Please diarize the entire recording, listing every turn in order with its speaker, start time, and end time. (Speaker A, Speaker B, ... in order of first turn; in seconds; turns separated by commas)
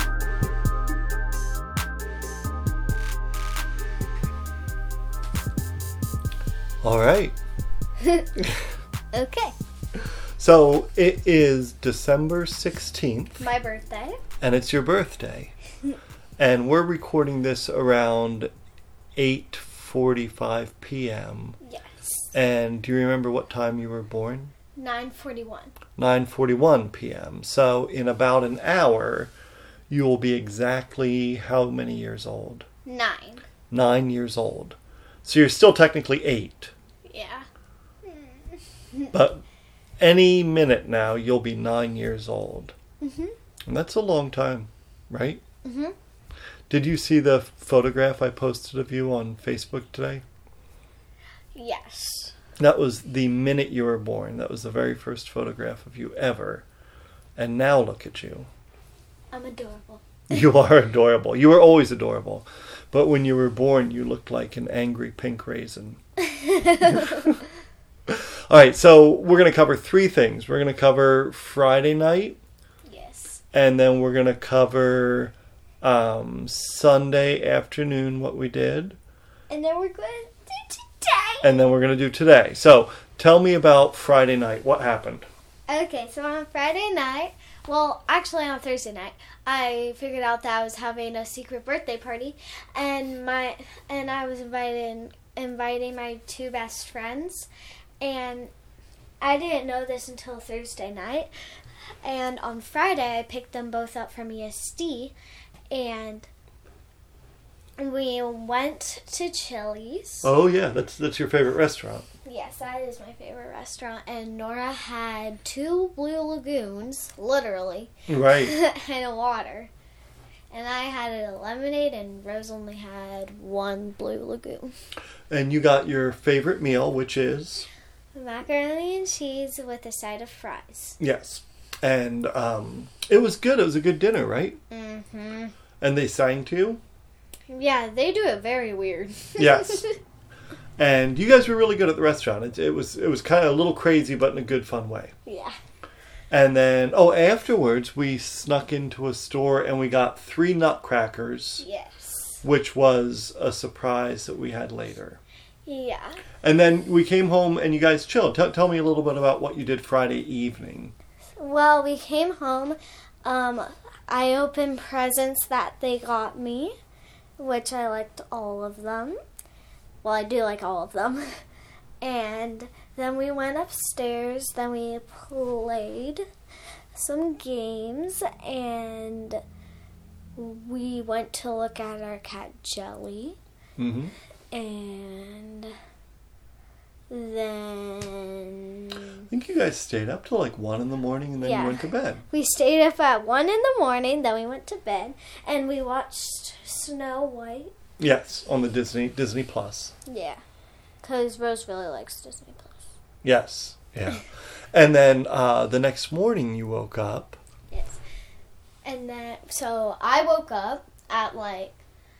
Speaker A: 6.8-7.3, Speaker B: 8.0-8.2, Speaker B: 9.1-9.5, Speaker A: 10.4-13.5, Speaker B: 13.4-14.2, Speaker A: 14.4-15.5, Speaker A: 16.4-18.5, Speaker A: 19.1-21.6, Speaker B: 21.6-22.3, Speaker A: 22.3-24.5, Speaker B: 24.8-25.7, Speaker A: 26.0-29.3, Speaker A: 29.9-32.6, Speaker B: 32.8-33.5, Speaker A: 33.7-36.7, Speaker B: 37.1-37.5, Speaker B: 38.0-39.1, Speaker A: 39.1-39.4, Speaker A: 40.0-42.7, Speaker B: 43.0-43.3, Speaker A: 43.7-45.4, Speaker B: 45.6-45.9, Speaker A: 46.7-50.2, Speaker B: 51.5-52.3, Speaker A: 52.6-56.6, Speaker A: 57.4-58.5, Speaker B: 59.3-60.0, Speaker A: 60.3-66.0, Speaker B: 66.2-67.4, Speaker A: 66.8-67.4, Speaker A: 68.1-72.4, Speaker B: 72.8-73.4, Speaker A: 73.5-79.0, Speaker B: 79.5-81.5, Speaker A: 81.4-85.3, Speaker B: 85.7-97.5, Speaker B: 98.0-98.5, Speaker B: 99.2-101.3, Speaker B: 102.0-105.1, Speaker B: 105.7-106.3, Speaker B: 107.8-110.3, Speaker A: 110.2-112.0, Speaker B: 112.2-119.7, Speaker A: 118.1-118.5, Speaker B: 120.5-124.7, Speaker A: 125.3-127.7, Speaker B: 128.1-131.0, Speaker A: 131.0-134.6, Speaker B: 134.7-135.5, Speaker A: 135.8-136.8, Speaker B: 137.5-140.0, Speaker A: 139.4-139.8, Speaker A: 140.8-145.1, Speaker B: 145.2-145.5, Speaker A: 146.3-151.6, Speaker B: 151.6-152.4, Speaker A: 152.4-155.2, Speaker B: 155.7-156.2, Speaker A: 156.4-160.9, Speaker B: 161.4-166.7, Speaker B: 167.4-169.2, Speaker B: 170.0-171.2, Speaker B: 172.0-176.2, Speaker B: 176.9-179.4, Speaker B: 180.3-183.4, Speaker A: 183.8-184.1, Speaker B: 184.5-185.7, Speaker B: 187.1-189.2, Speaker A: 189.3-192.2, Speaker B: 191.4-197.7, Speaker A: 198.0-199.9, Speaker B: 200.1-200.4, Speaker B: 201.0-202.9, Speaker A: 203.2-207.4, Speaker B: 207.7-208.0, Speaker B: 208.8-211.8